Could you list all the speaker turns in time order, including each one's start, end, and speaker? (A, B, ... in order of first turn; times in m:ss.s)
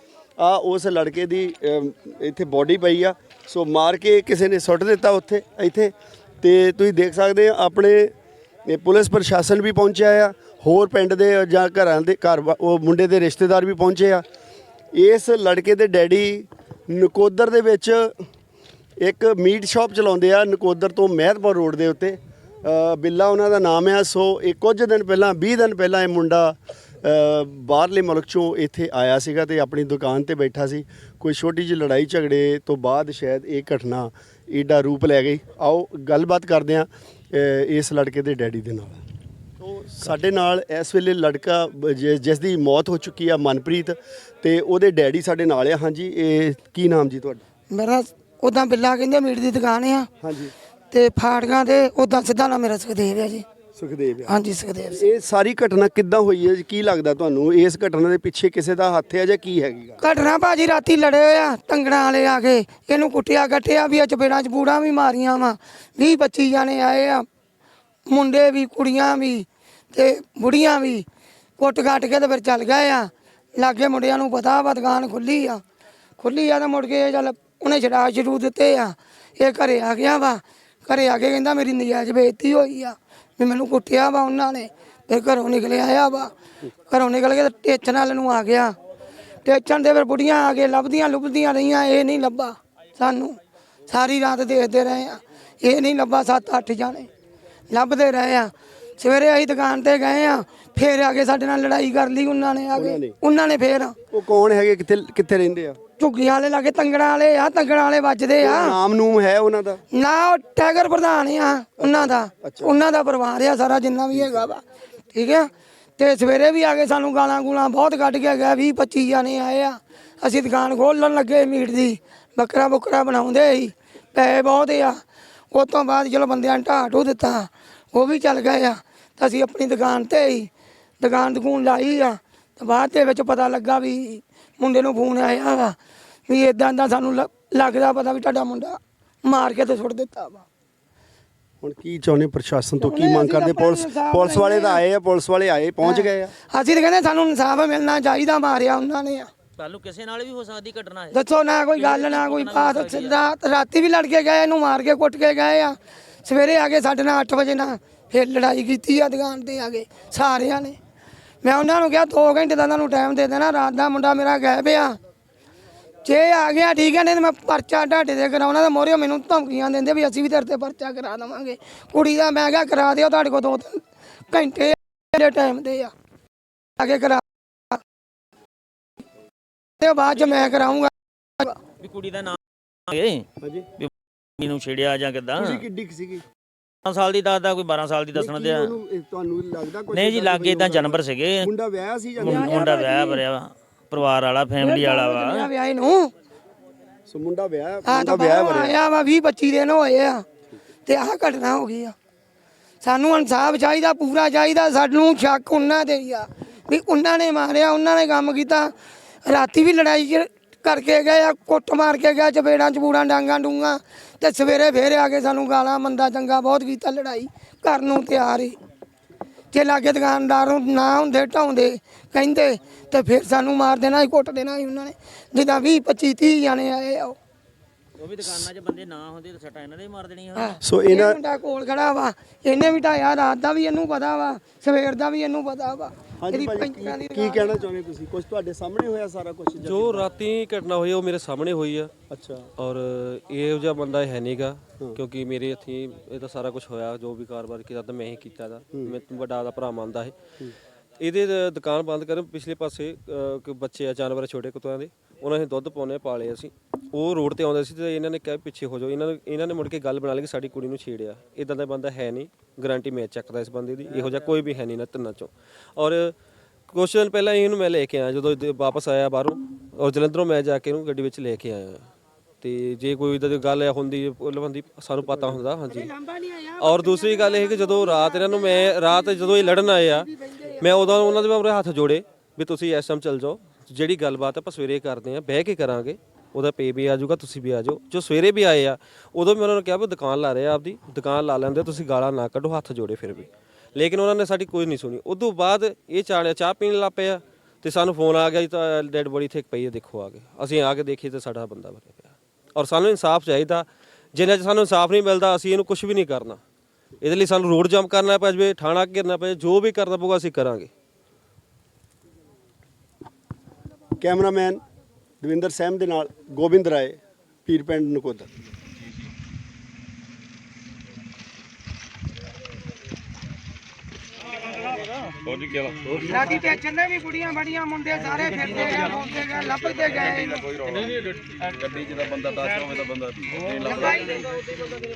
0:00.4-0:08.1 A
0:08.7-0:14.2 A
0:14.9-0:18.2 A
0:19.0-0:39.0 A
0:39.6-0:47.4 A
0:47.7-0:50.1 B
0:50.2-0:50.5 A
0:50.9-0:53.4 B
0:53.8-0:54.4 A
0:54.3-0:55.0 B
0:54.9-1:00.0 A
1:00.0-1:07.3 B
1:08.1-1:11.0 B
1:11.6-1:15.6 B
1:16.2-1:26.3 B
1:26.9-1:28.8 B
1:29.4-1:33.4 B
1:33.9-1:37.1 B
1:37.7-1:44.0 B
1:42.8-1:43.2 A
1:44.1-1:45.8 A
1:46.0-1:48.8 B
1:48.4-1:49.8 A
1:49.9-2:05.0 B
1:51.8-1:52.8 A
1:54.1-1:54.5 A
2:05.5-2:15.8 B
2:16.3-2:20.5 B
2:21.6-2:26.3 A
2:22.8-2:24.8 B
2:25.8-2:29.3 B
2:29.6-2:31.2 C
2:31.1-2:40.8 B
2:31.8-2:33.2 C
2:41.4-2:45.0 B
2:46.0-2:55.9 B
2:56.8-2:57.8 B
2:59.8-3:01.6 B
3:00.3-3:00.6 C
3:01.8-3:03.3 C
3:03.4-3:03.7 A
3:03.8-3:05.6 C
3:05.4-3:06.2 A
3:06.8-3:08.8 C
3:08.1-3:12.7 A
3:09.9-3:11.5 C
3:12.2-3:15.5 C
3:12.2-3:13.2 B
3:14.6-3:16.1 B
3:17.1-3:18.8 A
3:17.8-3:20.2 B
3:20.9-3:21.9 B
3:22.8-3:28.7 B
3:29.2-3:38.6 B
3:39.5-3:47.2 B
3:48.0-3:50.6 C
3:50.4-3:57.6 B
3:50.6-3:51.2 A
3:56.2-4:00.1 A
3:59.6-4:01.9 D
4:02.1-4:02.5 A
4:02.6-4:10.2 D
4:11.0-4:26.2 D
4:26.7-4:31.9 D
4:32.4-4:35.9 D
4:35.7-4:40.9 B
4:36.6-5:06.4 D
5:07.0-5:10.7 D
5:14.0-5:14.6 A
5:15.2-5:18.3 A
5:25.3-5:25.8 E
5:26.0-5:30.5 B
5:30.6-5:30.9 E
5:31.6-5:34.0 E
5:33.6-5:34.3 B